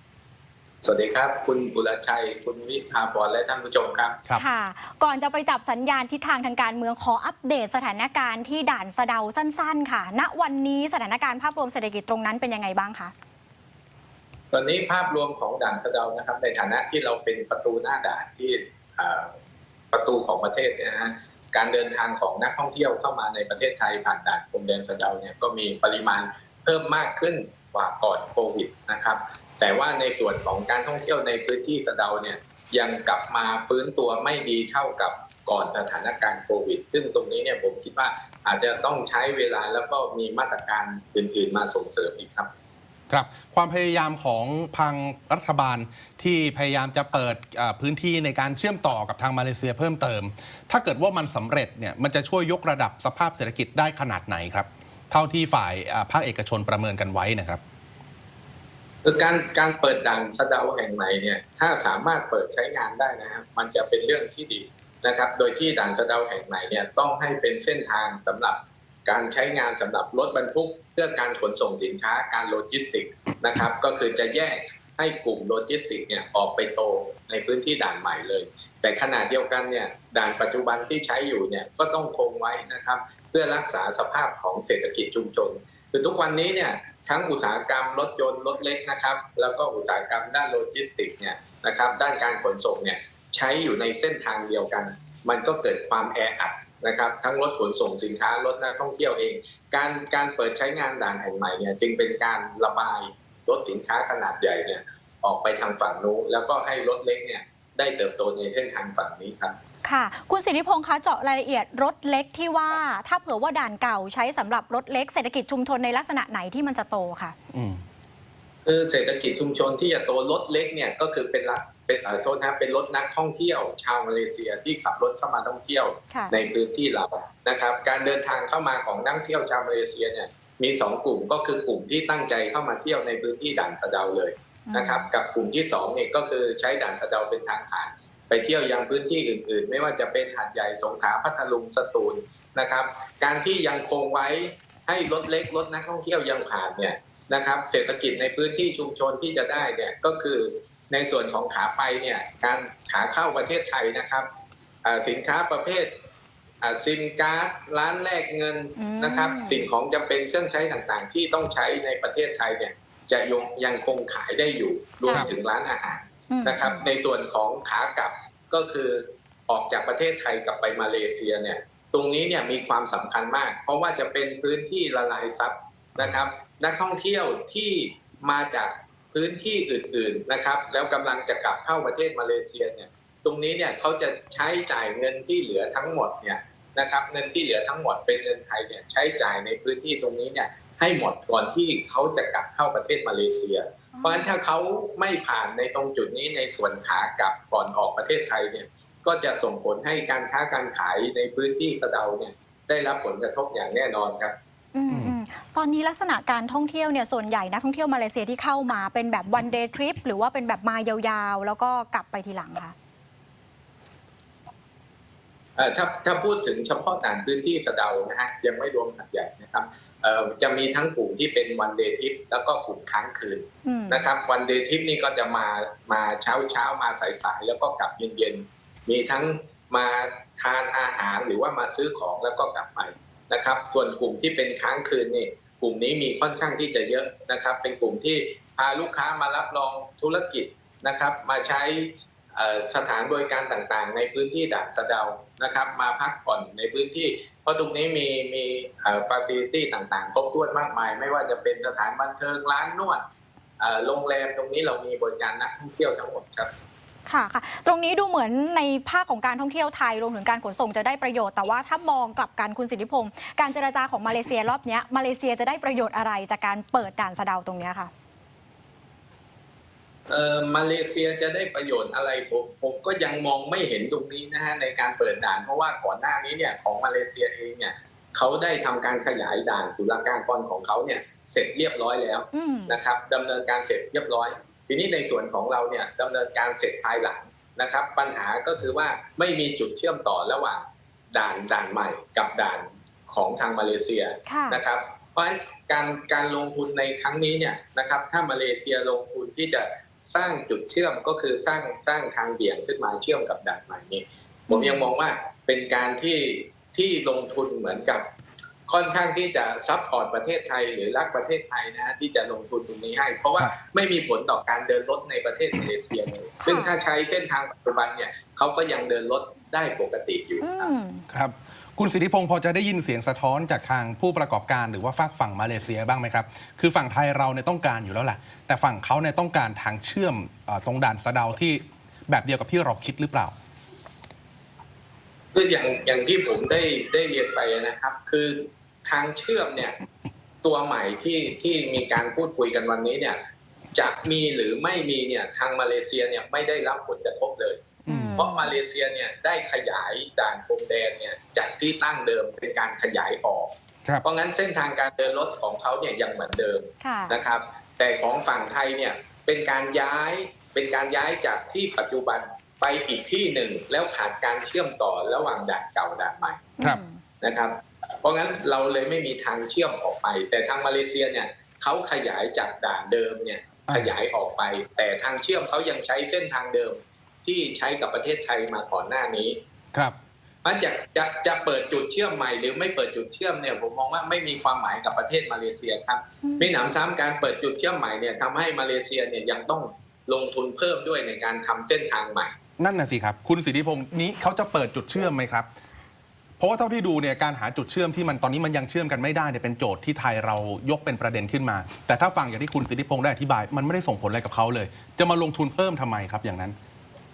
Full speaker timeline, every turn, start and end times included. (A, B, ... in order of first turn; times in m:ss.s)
0:00.8-0:04.2 A
0:04.3-0:13.1 B
0:14.5-0:19.4 A
0:19.9-0:42.5 A
0:43.1-0:57.6 C
0:59.0-1:49.6 A
1:49.8-1:57.3 B
1:57.5-1:57.8 C
1:58.6-2:34.3 A
2:14.7-2:15.1 B
2:34.8-2:35.9 A
2:36.6-3:24.4 A
2:38.8-2:39.7 B
2:45.0-2:45.3 B
2:46.3-2:46.8 B
3:13.9-3:14.3 B
3:24.7-3:32.7 B
3:24.9-3:25.2 C
3:35.6-4:13.0 A
3:43.6-3:44.1 B
4:13.6-4:16.5 A
4:17.1-4:27.9 B
4:30.1-5:08.1 A
4:42.3-4:42.8 B
4:54.3-4:54.6 B
5:04.5-5:04.9 B
5:08.7-5:20.7 A
5:16.4-5:16.7 B
5:20.4-5:21.0 B
5:21.1-5:33.3 C
5:35.3-5:39.8 A
5:40.4-5:43.2 A
5:43.7-5:47.6 A
5:47.8-5:48.2 C
5:47.9-5:48.5 B
5:48.2-5:53.5 A
5:54.0-6:06.5 A
5:56.8-5:57.2 B
6:06.6-6:07.0 B
6:07.2-6:19.4 A
6:13.7-6:13.9 C
6:20.4-6:32.3 A
6:26.2-6:26.5 B
6:32.6-6:35.5 C
6:36.4-6:46.6 C